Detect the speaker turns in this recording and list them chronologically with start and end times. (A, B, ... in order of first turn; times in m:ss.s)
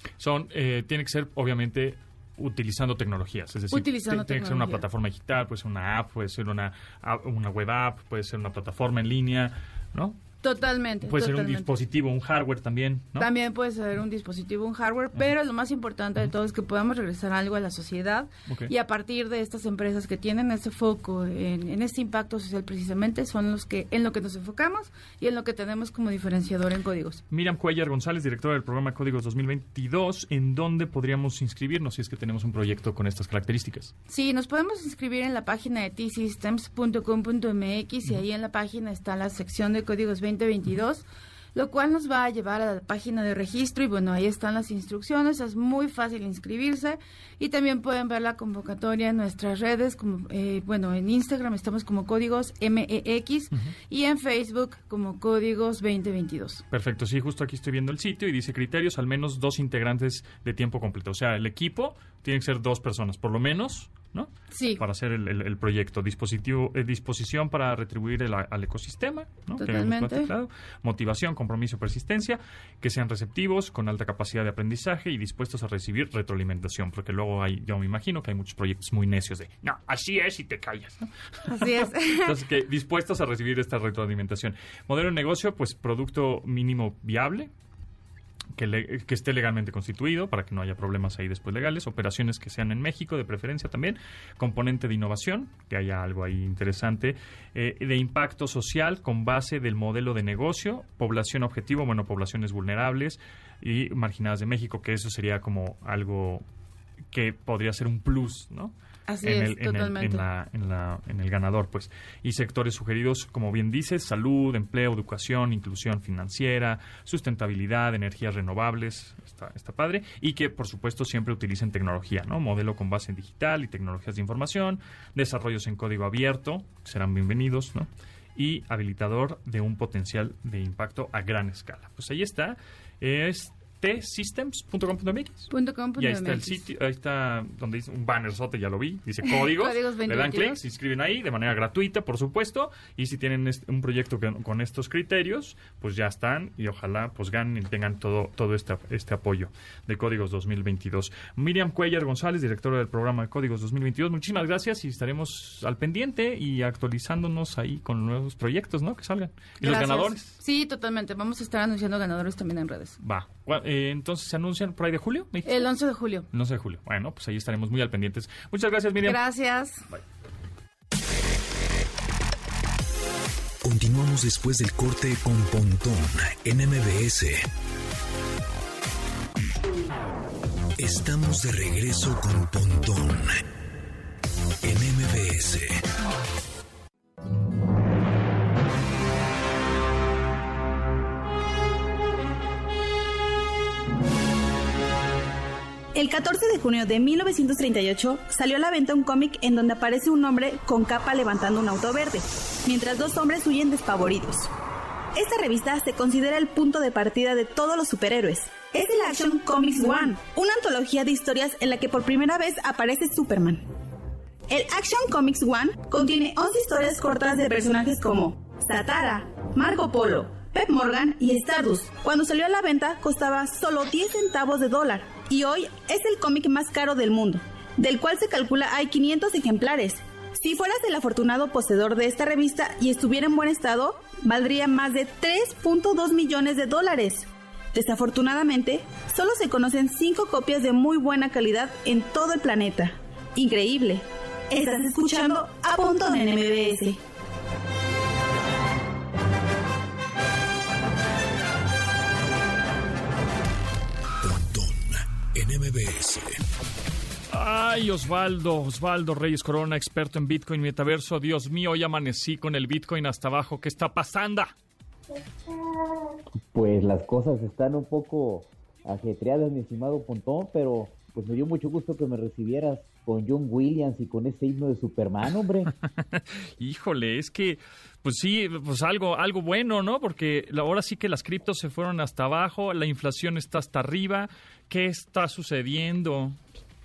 0:00.2-0:10.2 A
0:03.7-0:04.8 B
0:10.4-0:11.7 B
0:11.0-0:13.3 A
0:13.2-0:27.2 B
0:27.3-0:33.9 A
0:34.1-0:56.6 B
0:56.7-1:27.5 A
1:04.5-1:04.8 B
1:09.6-1:10.3 B
1:21.5-1:22.4 B
1:28.5-1:46.4 A
1:47.1-2:40.3 A
1:49.1-1:50.2 B
2:15.5-2:16.6 B
2:19.2-2:20.6 B
2:39.6-2:43.0 B
2:43.0-2:45.7 A
2:45.4-2:46.3 B
2:46.3-2:49.2 A
2:49.0-2:49.8 B
2:53.6-2:57.4 C
3:00.8-3:03.4 C
3:04.6-3:05.8 C
3:15.9-3:24.5 D
3:25.1-3:33.6 D
3:34.5-4:07.0 D
4:14.2-4:16.4 C
4:17.3-4:24.5 A
4:26.5-4:35.7 E
4:35.9-4:46.4 A